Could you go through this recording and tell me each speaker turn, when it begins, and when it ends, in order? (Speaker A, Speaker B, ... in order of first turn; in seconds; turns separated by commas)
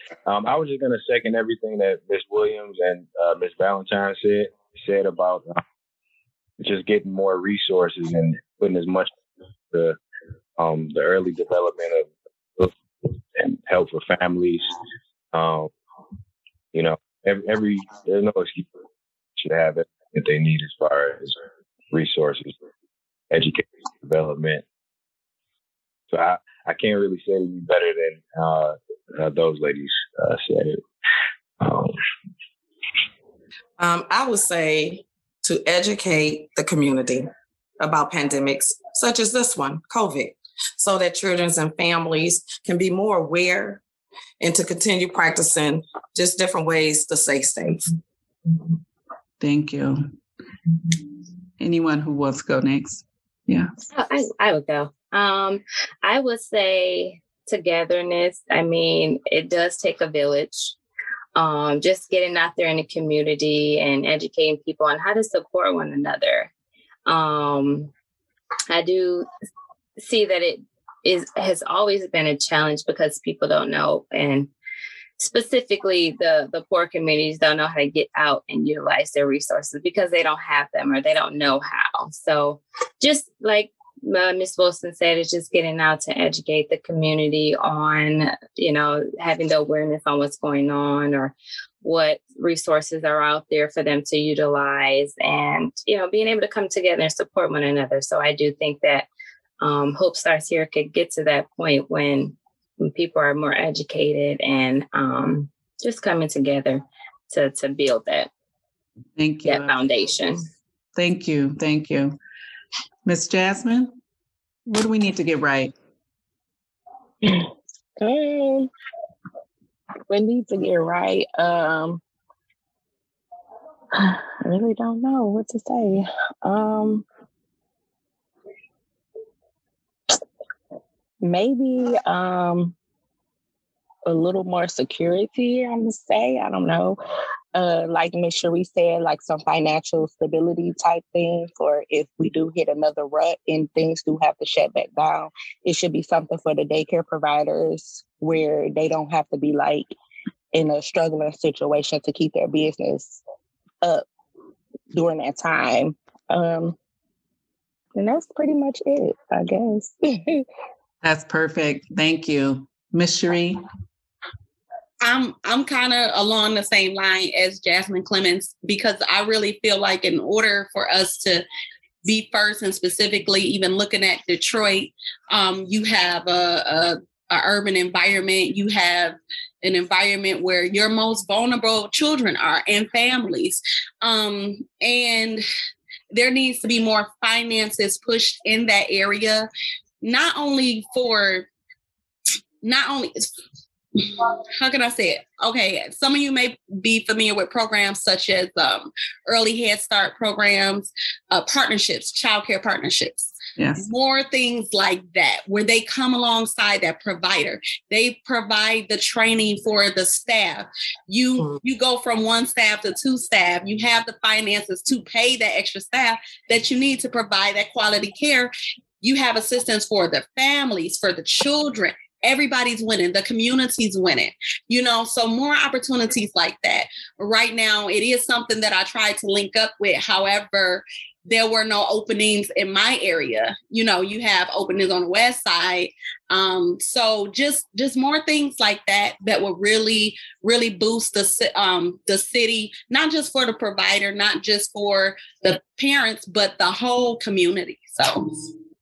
Speaker A: 0.2-5.6, Speaker A: 6.6-9.1, Speaker A: 9.7-10.0, Speaker A: 10.6-12.7, Speaker A: 13.3-14.6, Speaker A: 15.3-15.7, Speaker A: 16.7-18.8, Speaker A: 19.4-21.4, Speaker A: 21.9-22.5, Speaker A: 23.3-24.6, Speaker A: 26.1-30.8, Speaker A: 31.6-32.0, Speaker B: 33.8-43.8, Speaker B: 44.4-47.9, Speaker C: 49.4-50.1, Speaker C: 51.6-53.7, Speaker D: 53.9-60.8, Speaker D: 61.3-66.5, Speaker D: 67.0-67.9, Speaker D: 68.7-69.3, Speaker D: 70.0-74.5, Speaker D: 75.2-99.1, Speaker D: 99.6-108.3, Speaker C: 109.2-109.7, Speaker D: 109.4-110.4, Speaker C: 111.0-112.2, Speaker C: 113.0-114.0, Speaker C: 114.7-115.7, Speaker E: 117.2-118.7, Speaker E: 120.1-122.0, Speaker E: 123.9-127.0, Speaker E: 131.2-132.7, Speaker E: 134.1-137.0, Speaker E: 137.5-149.9, Speaker E: 150.5-153.2, Speaker E: 154.9-156.8, Speaker E: 157.9-160.4, Speaker C: 161.0-163.6, Speaker F: 165.0-171.4, Speaker F: 172.0-185.4, Speaker F: 186.1-189.5, Speaker F: 190.0-191.5, Speaker F: 192.6-193.3, Speaker F: 193.9-218.5, Speaker C: 203.6-203.8, Speaker F: 219.0-248.5